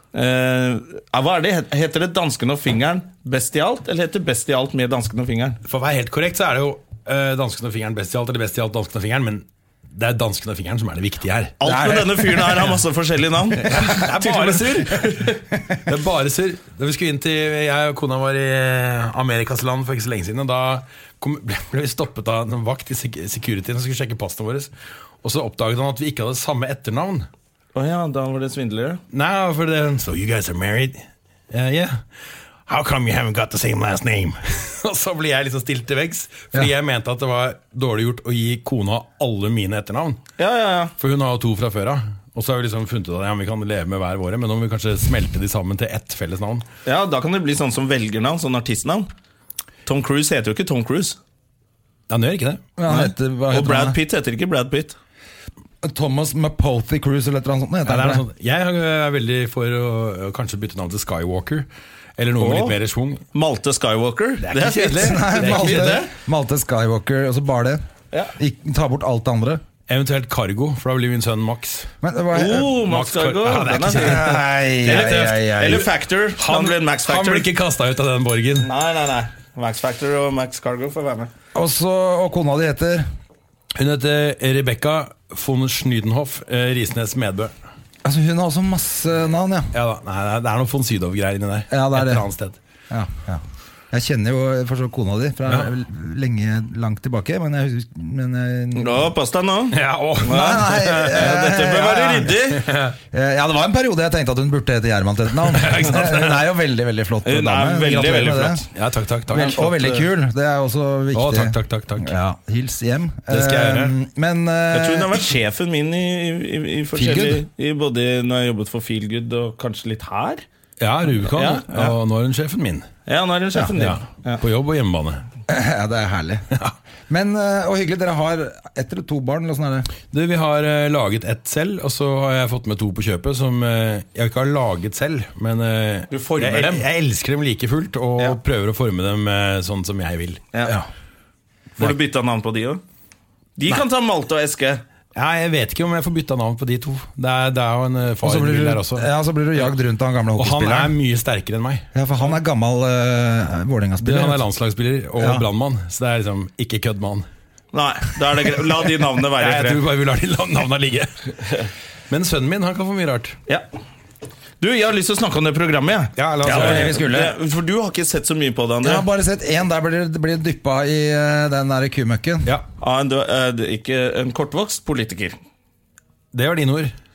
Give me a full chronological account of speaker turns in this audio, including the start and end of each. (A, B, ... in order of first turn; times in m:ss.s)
0:00.1-0:05.6 A
0:05.6-0:12.6 B
0:11.6-0:15.4 A
0:13.6-0:24.7 B
0:25.2-0:27.3 B
0:27.7-0:29.0 A
0:29.1-0:32.0 B
0:32.7-0:40.2 B
0:40.4-0:40.9 A
0:41.0-0:46.6 B
0:46.8-0:49.1 A
0:49.8-0:51.2 A
0:52.1-0:52.6 B
0:52.8-0:54.0 C
0:52.9-0:55.0 A
0:55.8-0:58.2 C
0:57.9-1:01.6 B
1:02.2-1:03.2 B
1:02.4-1:02.8 A
1:03.3-1:06.1 A
1:04.4-1:06.0 B
1:04.9-1:07.8 C
1:08.4-1:09.6 C
1:09.9-1:11.9 B
1:12.0-1:12.7 C
1:12.3-1:14.4 A
1:12.6-1:18.7 B
1:13.9-1:15.9 C
1:14.9-1:17.5 A
1:18.6-1:21.3 A
1:21.5-1:23.0 C
1:23.8-1:27.5 B
1:28.0-1:29.7 C
1:29.7-1:32.6 B
1:31.7-1:32.2 C
1:32.9-1:39.1 C
1:38.7-1:42.7 A
1:39.7-1:41.3 B
1:40.2-1:42.3 C
1:42.4-1:43.0 B
1:43.1-1:48.6 C
1:45.5-1:46.4 B
1:47.2-1:48.7 A
1:48.7-1:50.1 B
1:49.3-1:55.3 C
1:51.1-1:52.1 B
1:53.3-1:53.9 B
1:54.7-2:00.4 A
1:56.9-1:57.4 C
2:00.8-2:02.9 B
2:01.3-2:01.9 A
2:03.1-2:04.4 A
2:03.8-2:05.2 B
2:05.5-2:06.5 C
2:07.1-2:09.9 C
2:10.1-2:20.8 B
2:16.1-2:16.8 A
2:21.8-2:22.8 A
2:23.6-2:24.8 A
2:25.2-2:29.7 B
2:28.2-2:31.0 C
2:30.4-2:31.9 B
2:31.9-2:34.4 C
2:34.0-2:37.2 B
2:35.2-2:35.4 C
2:37.7-2:39.8 A
2:39.4-2:43.4 B
2:44.6-2:49.0 A
2:46.2-2:47.0 B
2:46.4-2:47.4 C
2:48.8-2:52.5 C
2:52.8-2:55.4 A
2:56.3-2:56.9 B